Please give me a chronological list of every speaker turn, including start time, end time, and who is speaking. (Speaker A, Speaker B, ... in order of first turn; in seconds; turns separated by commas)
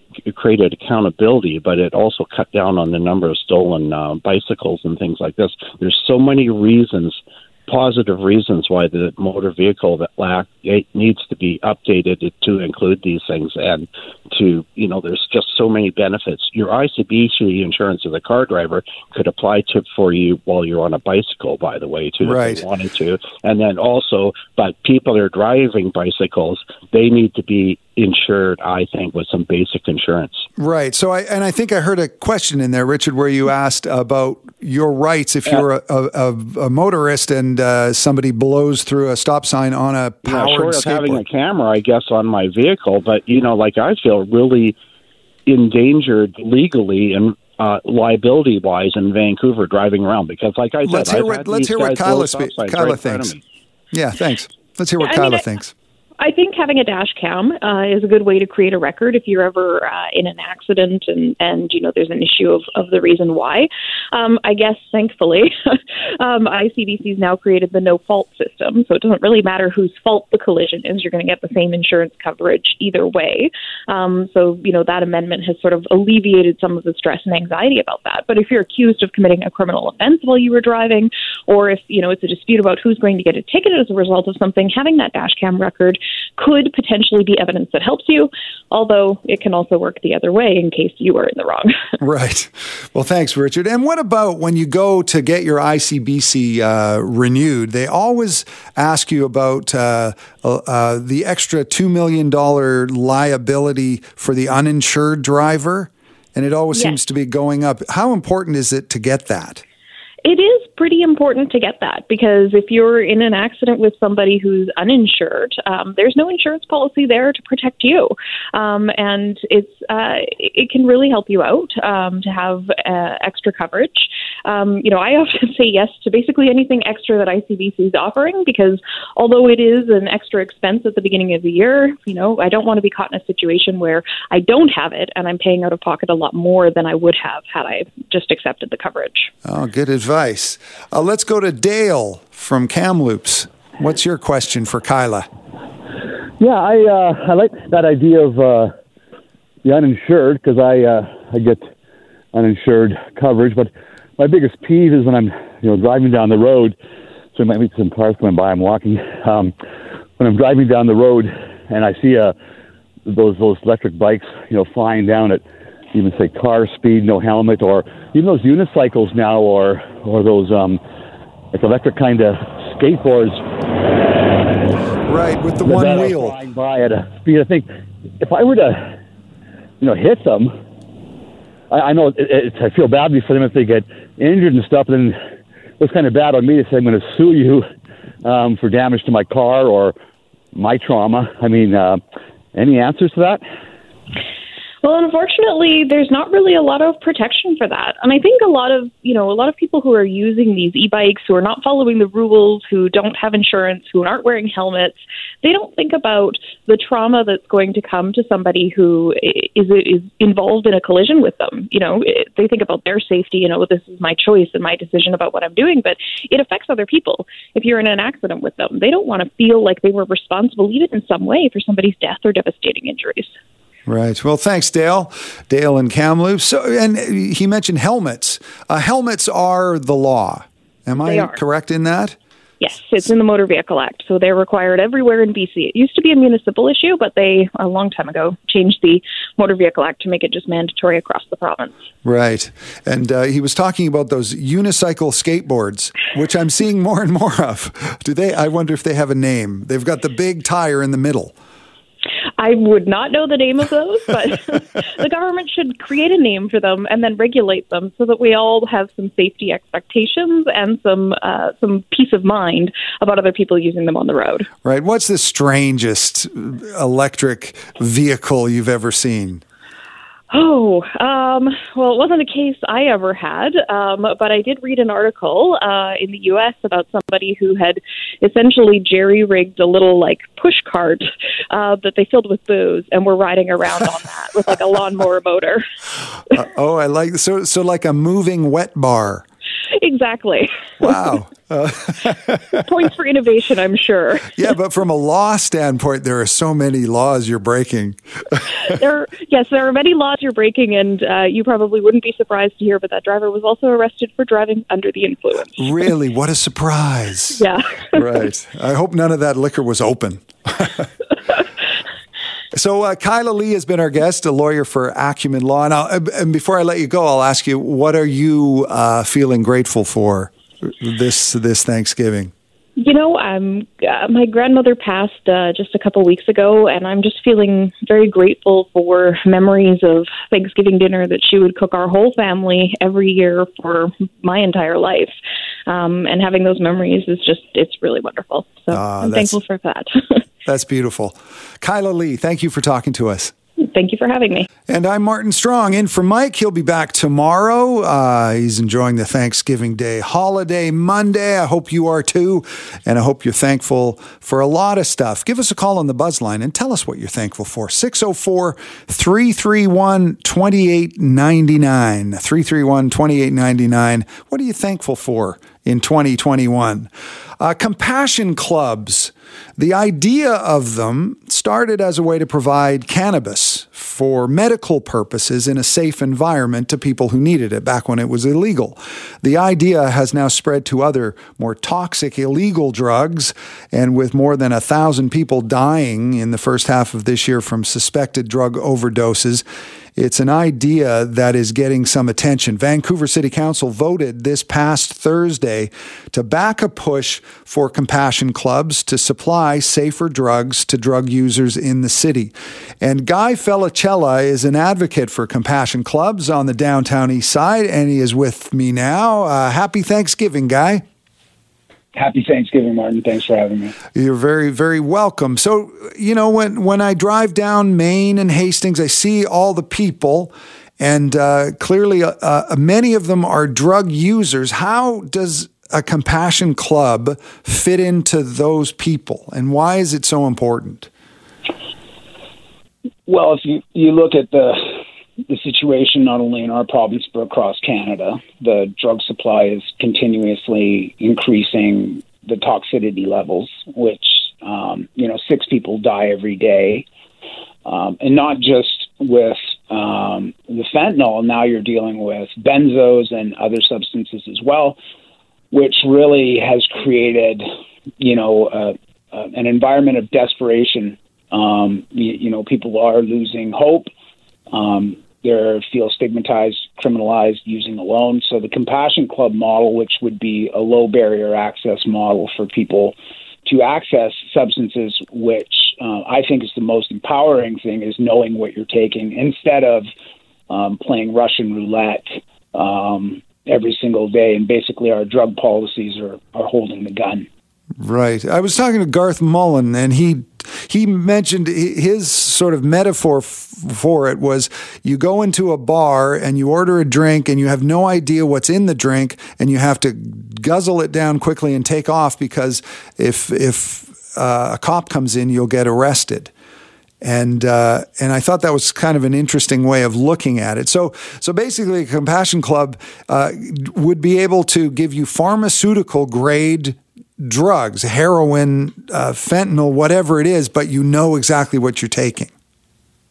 Speaker A: 0.2-30.4, Speaker B: 22.2-22.6, Speaker B: 30.6-41.2, Speaker A: 40.2-44.8, Speaker A: 45.5-53.4, Speaker B: 50.8-53.3, Speaker B: 53.9-55.7, Speaker C: 55.0-55.4, Speaker C: 56.2-91.8, Speaker B: 92.0-109.6, Speaker C: 110.2-139.3, Speaker B: 139.4-145.3, Speaker D: 146.4-148.7, Speaker D: 149.6-151.7, Speaker D: 152.3-156.8, Speaker D: 157.3-159.5, Speaker D: 160.2-162.3, Speaker D: 163.1-170.8, Speaker D: 171.5-173.4, Speaker D: 174.1-174.5, Speaker B: 175.1-176.3, Speaker D: 175.6-177.7, Speaker D: 178.2-179.0, Speaker D: 179.8-180.5, Speaker D: 181.7-185.2, Speaker D: 185.8-187.6, Speaker D: 188.2-189.9, Speaker D: 190.5-192.0, Speaker D: 192.5-193.4, Speaker C: 194.8-223.3, Speaker B: 223.9-232.2, Speaker C: 231.0-231.4, Speaker C: 232.6-241.7, Speaker B: 242.0-251.3, Speaker C: 252.4-264.5, Speaker B: 264.6-269.4, Speaker C: 270.3-285.6, Speaker B: 286.4-289.2, Speaker C: 289.8-291.2, Speaker B: 290.8-292.6, Speaker C: 292.6-294.4, Speaker B: 294.4-298.7, Speaker C: 298.7-305.6, Speaker B: 305.6-310.9, Speaker C: 307.4-308.0, Speaker B: 312.5-322.3, Speaker C: 322.8-335.1, Speaker C: 335.7-340.2, Speaker B: 338.7-339.4, Speaker B: 340.4-343.3, Speaker C: 343.6-344.5, Speaker B: 344.7-366.9, Speaker B: 367.4-389.4, Speaker B: 390.0-410.8, Speaker E: 411.9-413.7, Speaker B: 413.9-430.9, Speaker E: 433.1-446.9, Speaker E: 447.6-454.8, Speaker E: 455.5-457.4, Speaker E: 458.0-463.9, Speaker E: 464.5-479.9, Speaker E: 480.5-487.2, Speaker B: 487.8-506.3, Speaker B: 507.0-522.3